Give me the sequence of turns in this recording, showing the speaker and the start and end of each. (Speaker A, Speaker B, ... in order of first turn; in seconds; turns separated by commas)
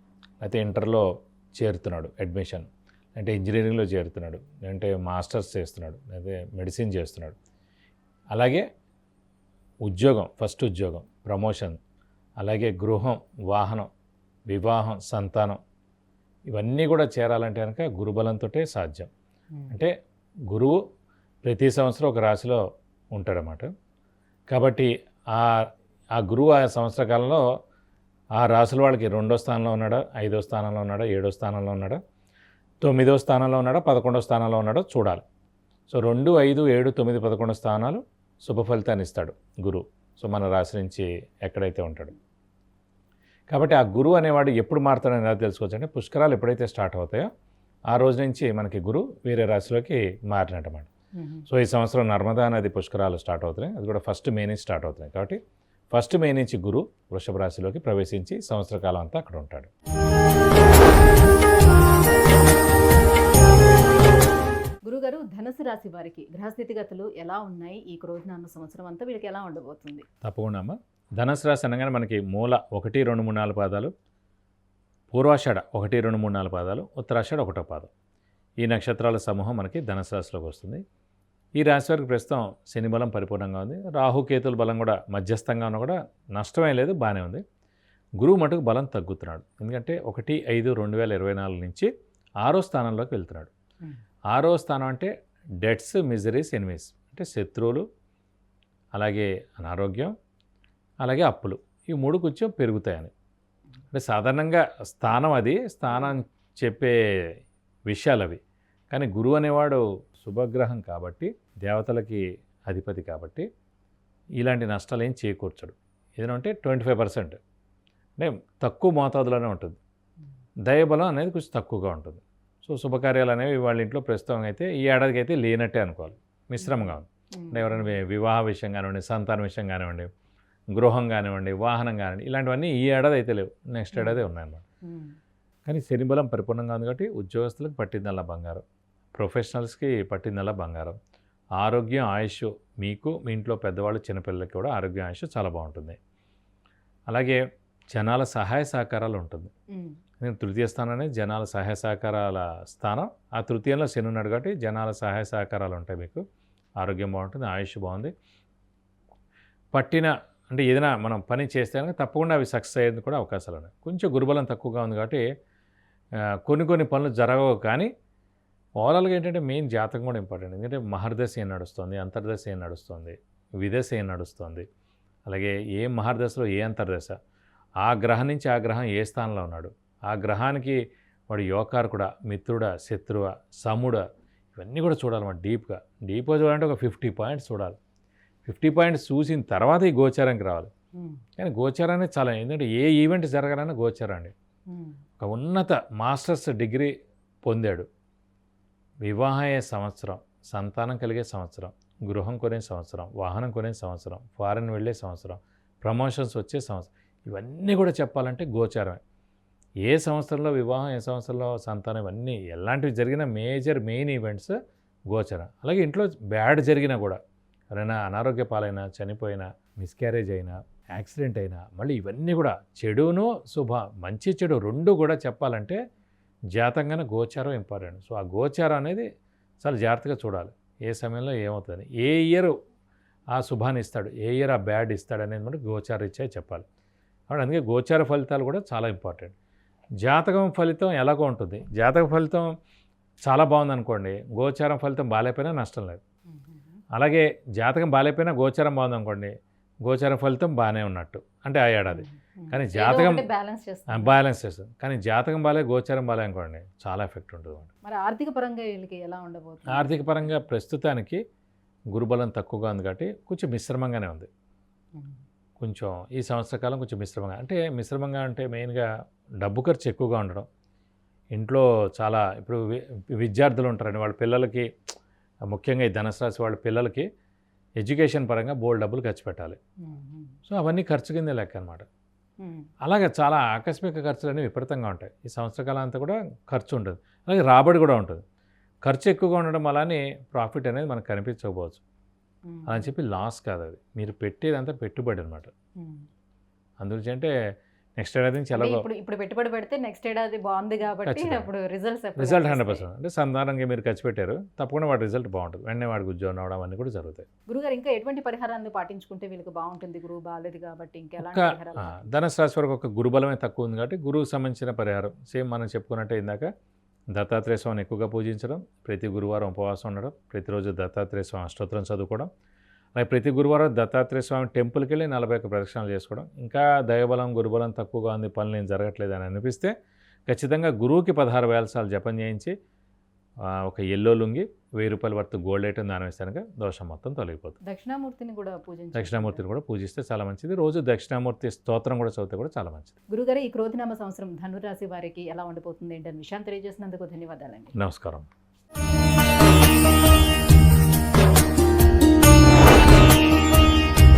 Speaker A: 0.4-7.4, Speaker A: 8.3-8.7, Speaker A: 9.9-11.8, Speaker A: 12.4-13.9, Speaker A: 14.5-15.6, Speaker A: 16.5-19.1, Speaker A: 20.5-20.8, Speaker A: 21.4-22.6, Speaker A: 23.1-23.7, Speaker A: 24.5-27.4, Speaker A: 28.4-32.0, Speaker A: 32.8-35.2, Speaker A: 35.9-42.1, Speaker A: 43.5-47.3, Speaker A: 47.9-50.9, Speaker B: 51.1-51.5, Speaker A: 51.5-55.4, Speaker A: 55.9-59.7, Speaker B: 64.9-70.0, Speaker A: 70.2-73.9, Speaker A: 75.1-77.9, Speaker A: 78.6-80.8, Speaker A: 81.6-87.4, Speaker A: 88.2-91.9, Speaker A: 92.4-93.5, Speaker A: 94.3-95.1, Speaker A: 95.6-97.8, Speaker A: 99.0-100.1, Speaker A: 101.0-103.1, Speaker A: 103.9-107.0, Speaker A: 107.9-108.4, Speaker A: 108.9-113.5, Speaker A: 114.4-117.4, Speaker A: 118.2-119.8, Speaker A: 120.7-130.1, Speaker B: 126.6-128.0, Speaker A: 130.7-134.6, Speaker B: 134.8-135.1, Speaker A: 135.7-138.6, Speaker A: 139.2-141.0, Speaker A: 141.6-146.0, Speaker A: 147.1-147.4, Speaker A: 147.9-149.5, Speaker A: 150.2-156.2, Speaker A: 156.8-158.1, Speaker A: 159.7-165.2, Speaker A: 166.4-167.9, Speaker A: 168.8-174.7, Speaker A: 175.3-177.2, Speaker A: 177.8-180.8, Speaker A: 181.3-184.0, Speaker A: 184.6-187.8, Speaker A: 188.4-190.7, Speaker B: 191.0-191.2, Speaker A: 191.4-194.3, Speaker B: 194.7-195.0, Speaker A: 195.2-196.9, Speaker A: 197.4-197.9, Speaker A: 199.1-209.0, Speaker A: 209.9-214.6, Speaker A: 215.1-217.2, Speaker A: 217.8-225.8, Speaker A: 226.6-229.1, Speaker A: 229.6-232.5, Speaker A: 233.3-236.7, Speaker A: 237.3-239.3, Speaker A: 240.0-242.5, Speaker A: 243.3-246.0, Speaker B: 246.3-246.7, Speaker A: 246.9-249.3, Speaker A: 249.8-253.3, Speaker B: 251.9-254.2, Speaker A: 253.9-257.7, Speaker B: 257.8-260.3, Speaker A: 259.7-261.2, Speaker A: 261.9-264.3, Speaker A: 265.6-268.9, Speaker A: 269.4-270.5, Speaker A: 271.4-274.7, Speaker A: 275.5-277.1, Speaker A: 277.8-279.6, Speaker B: 279.8-280.4, Speaker A: 280.5-281.9, Speaker B: 282.4-282.7, Speaker A: 282.8-288.2, Speaker A: 288.9-291.8, Speaker B: 292.5-292.9, Speaker A: 292.7-295.5, Speaker B: 295.8-296.1, Speaker A: 296.8-297.3, Speaker A: 298.0-298.9, Speaker B: 298.5-302.9, Speaker A: 301.1-301.5, Speaker A: 302.2-307.3, Speaker B: 307.5-312.0, Speaker A: 311.2-316.5, Speaker A: 317.1-322.3, Speaker A: 323.0-329.7, Speaker A: 330.3-332.6, Speaker A: 333.5-337.6, Speaker B: 337.6-339.4, Speaker A: 338.9-342.9, Speaker B: 343.1-347.7, Speaker A: 347.8-348.3